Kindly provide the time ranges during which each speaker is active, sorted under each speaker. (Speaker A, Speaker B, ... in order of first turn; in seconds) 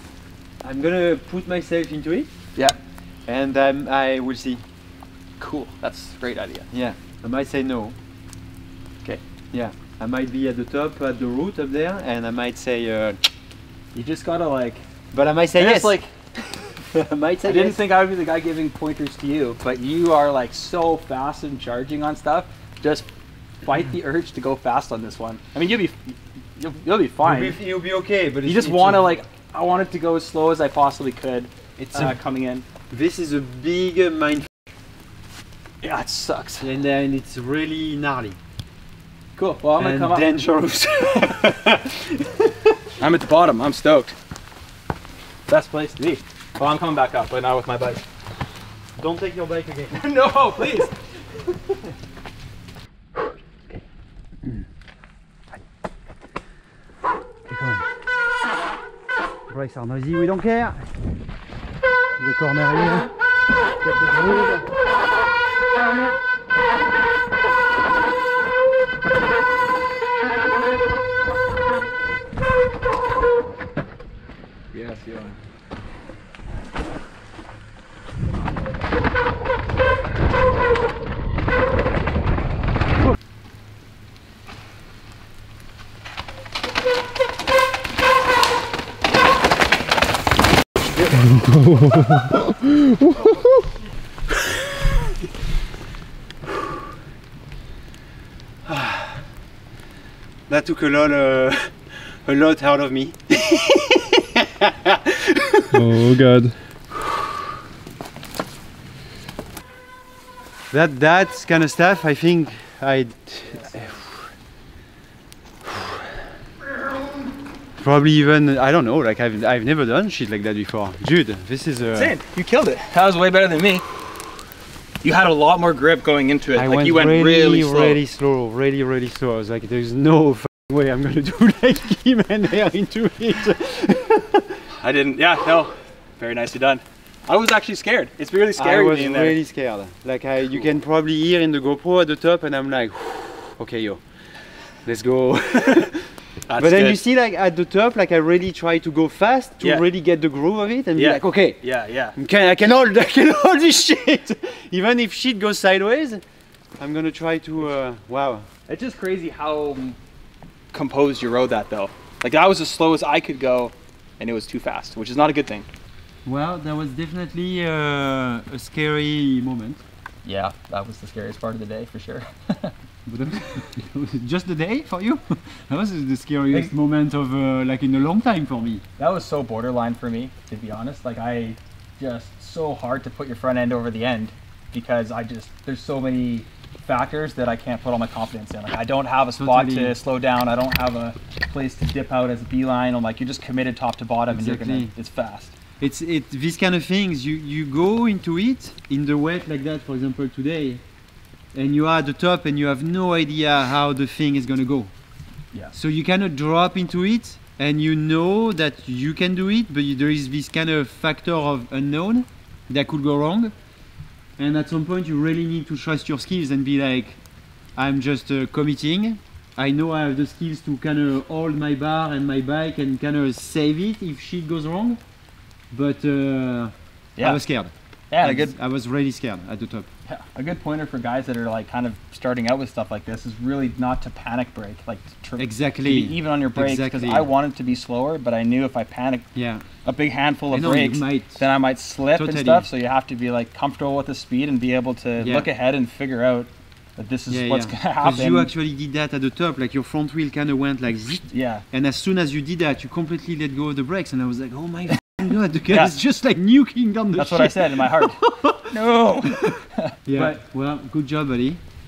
Speaker A: 0.6-2.3, 3.3-4.6, 6.7-8.0, 9.5-13.2, 15.1-16.0, 16.6-17.8, 27.2-29.2, 31.8-32.2, 32.9-34.7, 36.6-38.4, 39.8-42.6, 49.0-50.0, 57.4-58.0, 59.5-60.9, 62.2-63.1, 63.8-64.6, 94.3-95.0, 98.6-99.2, 100.5-105.9, 110.7-114.1, 115.7-116.1, 117.8-122.1, 126.5-134.6, 138.6-144.0, 144.8-151.6, 152.1-156.2, 156.8-158.5, 166.2-169.8, 173.1-178.8, 189.4-189.9, 194.3-194.9, 195.8-200.8, 201.5-204.9, 205.7-213.5, 214.4-217.2, 217.8-225.0, 225.7-229.9, 235.4-237.3, 239.3-239.6, 240.5-241.4, 242.1-242.7, 245.2-245.5, 247.3-261.6
Speaker B: 5.4-6.7, 13.9-14.8, 15.6-16.1, 17.4-23.1, 23.6-27.6, 28.4-32.6, 35.8-36.7, 39.4-40.3, 43.0-44.1, 45.5-48.0, 49.9-50.9, 74.7-75.4, 113.5-114.0, 121.9-123.8, 125.0-128.0, 134.8-139.4, 146.5-147.0, 150.9-152.2, 158.7-160.0, 160.7-165.7, 170.2-172.7, 179.0-195.5, 227.2-227.4, 228.1-228.6, 230.1-239.2, 239.8-248.5, 251.3-251.6, 255.7-255.9, 257.1-260.4
Speaker C: 91.3-93.5, 105.7-106.6